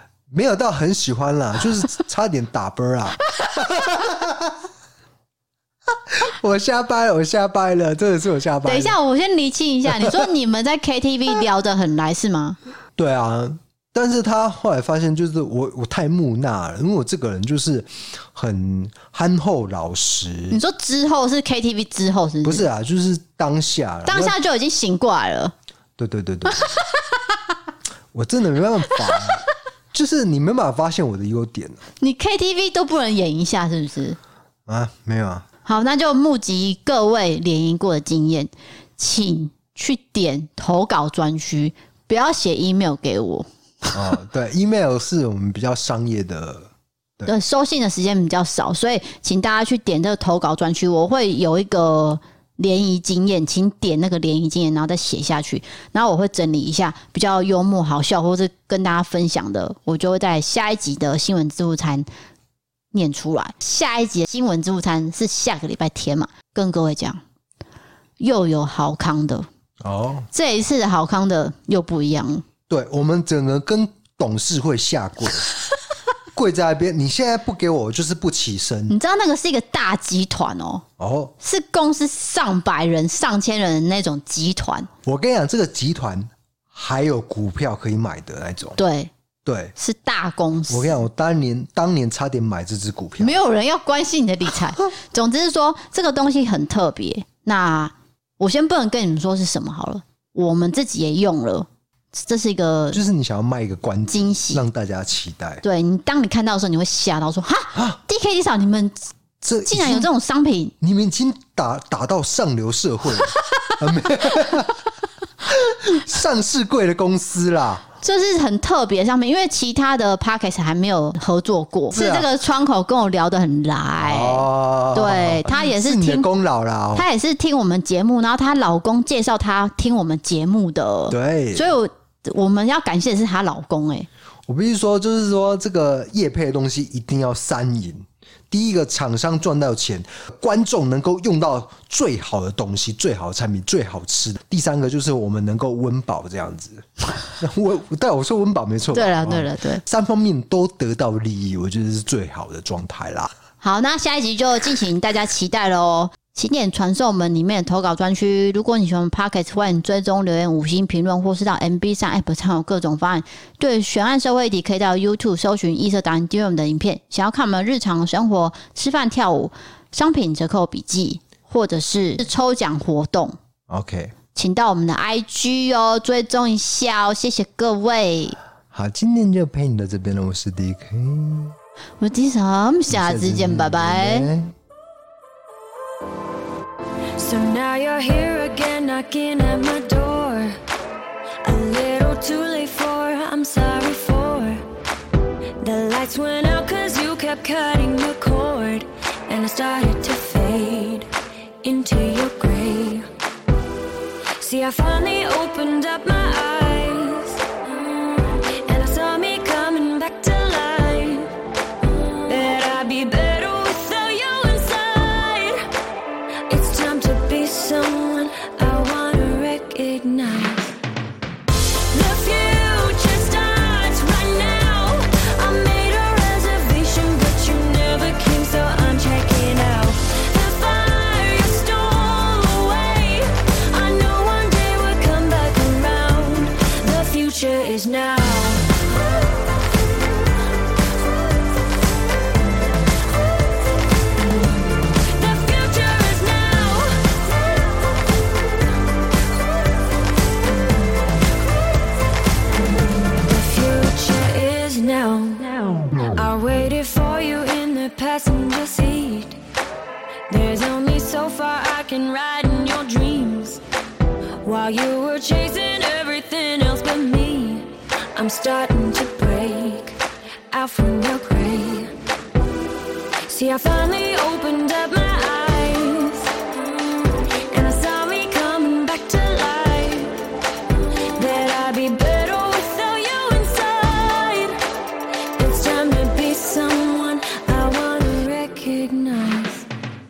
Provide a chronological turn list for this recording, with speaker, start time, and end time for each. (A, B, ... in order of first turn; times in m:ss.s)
0:00.3-0:04.6 A
0:06.1-0:09.0 A
0:08.6-0:12.6 B
0:09.9-0:10.2 A
0:13.0-0:20.6 A
0:20.5-0:22.7 B
0:22.4-0:24.4 A
0:24.1-0:25.5 B
0:26.0-0:26.8 A
0:26.5-0:27.0 B
0:28.1-0:31.8 A
0:32.0-0:34.2 B
0:34.7-0:35.5 A
0:35.6-0:44.1 B
0:43.9-0:47.3 A
0:47.3-1:02.1 B
1:02.9-1:07.2 B
1:08.2-1:09.5 B
1:09.8-1:10.3 A
1:10.3-1:12.4 B
1:12.7-1:15.5 A
1:16.3-1:19.0 A
1:18.9-1:20.8 B
1:21.0-1:21.3 A
1:21.4-1:24.9 B
1:25.0-1:28.8 A
1:28.8-1:29.1 B
1:29.4-1:29.7 A
1:29.8-1:30.9 B
1:30.7-1:33.4 A
1:33.2-1:43.0 B
1:42.9-1:45.6 A
1:44.1-1:44.6 B
1:45.6-1:49.1 B
1:49.4-1:50.1 A
1:49.7-1:50.7 B
1:50.8-1:54.8 A
1:55.4-1:57.8 A
1:58.0-2:06.3 B
2:01.9-2:02.3 A
2:04.0-2:07.1 A
2:07.0-2:14.1 B
2:11.1-2:11.7 A
2:14.5-2:33.3 A
2:28.9-2:29.8 B
2:33.6-2:53.4 B
2:53.7-2:54.2 A
2:54.3-2:58.4 B
2:58.7-3:01.6 A
3:02.0-3:04.3 B
3:02.9-3:04.5 A
3:07.2-3:10.6 C
3:11.4-3:14.6 C
3:15.6-3:21.1 C
3:21.6-3:23.1 C
3:24.4-3:31.4 C
3:32.3-3:35.7 C
3:36.5-3:40.8 C
3:41.7-3:59.0 C
4:04.2-4:08.1 C
4:12.5-4:19.4 C
4:20.3-4:23.6 C
4:24.4-4:30.0 C
4:30.5-4:31.9 C
4:33.3-4:40.2 C
4:41.1-4:44.6 C
4:45.4-4:49.7 C